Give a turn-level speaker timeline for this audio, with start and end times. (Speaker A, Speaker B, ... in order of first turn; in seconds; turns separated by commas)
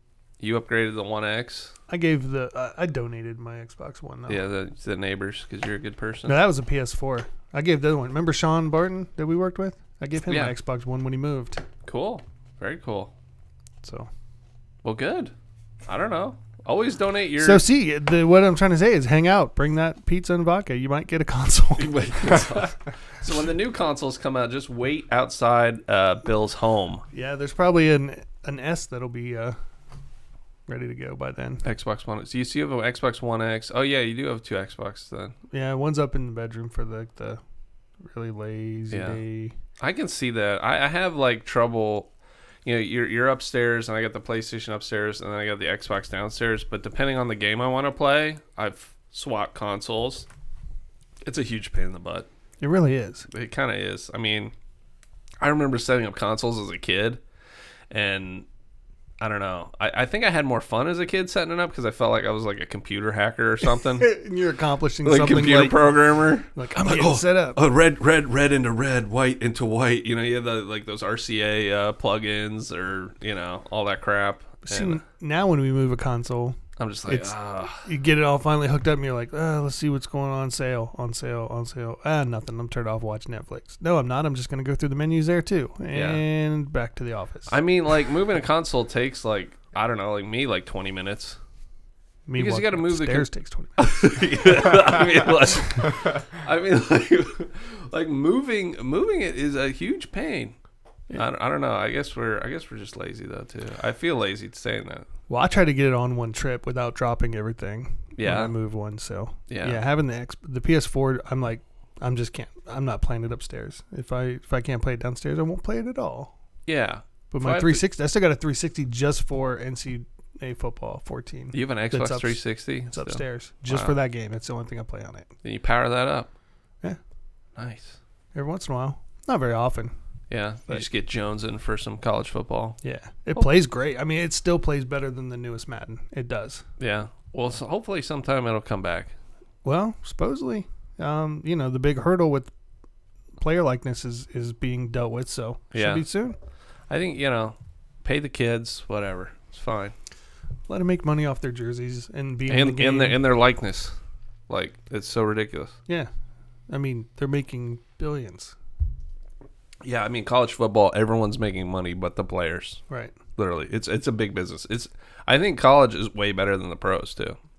Speaker A: 0.4-1.7, Speaker B: 1.9-4.4, Speaker A: 4.3-6.4, Speaker B: 6.2-11.6, Speaker A: 10.3-10.5, Speaker A: 11.8-13.1, Speaker B: 13.8-14.1, Speaker A: 14.8-15.3, Speaker A: 15.9-17.6, Speaker B: 17.4-22.7, Speaker A: 21.8-27.0, Speaker B: 27.1-29.6, Speaker B: 30.7-31.6, Speaker A: 31.6-35.3, Speaker B: 35.5-37.4, Speaker B: 38.0-39.5, Speaker A: 38.9-39.2, Speaker A: 39.8-42.1, Speaker A: 42.6-50.3, Speaker A: 51.2-52.3, Speaker B: 52.6-53.3, Speaker A: 53.3-54.5, Speaker A: 55.4-57.2, Speaker A: 57.9-58.5, Speaker A: 59.2-64.1, Speaker B: 64.0-67.6, Speaker A: 65.0-75.0, Speaker B: 74.6-87.5, Speaker A: 76.8-77.8, Speaker A: 85.9-86.2, Speaker A: 87.5-91.4, Speaker B: 92.3-93.9, Speaker A: 92.4-100.5, Speaker A: 101.1-105.1, Speaker B: 105.3-116.3, Speaker A: 108.2-108.5, Speaker A: 109.5-109.8, Speaker A: 116.7-117.8, Speaker B: 117.3-125.3, Speaker A: 121.5-124.0, Speaker A: 125.4-126.3, Speaker A: 127.5-128.0, Speaker B: 128.3-129.9, Speaker A: 130.3-132.8, Speaker B: 132.8-136.6, Speaker A: 136.8-139.1, Speaker B: 139.6-142.5, Speaker B: 143.4-146.4, Speaker A: 145.7-146.0, Speaker A: 146.9-149.9, Speaker B: 150.7-153.2, Speaker A: 152.5-153.9, Speaker A: 154.5-155.7, Speaker B: 156.7-158.5, Speaker A: 159.8-162.8, Speaker B: 162.9-163.2, Speaker A: 163.3-167.4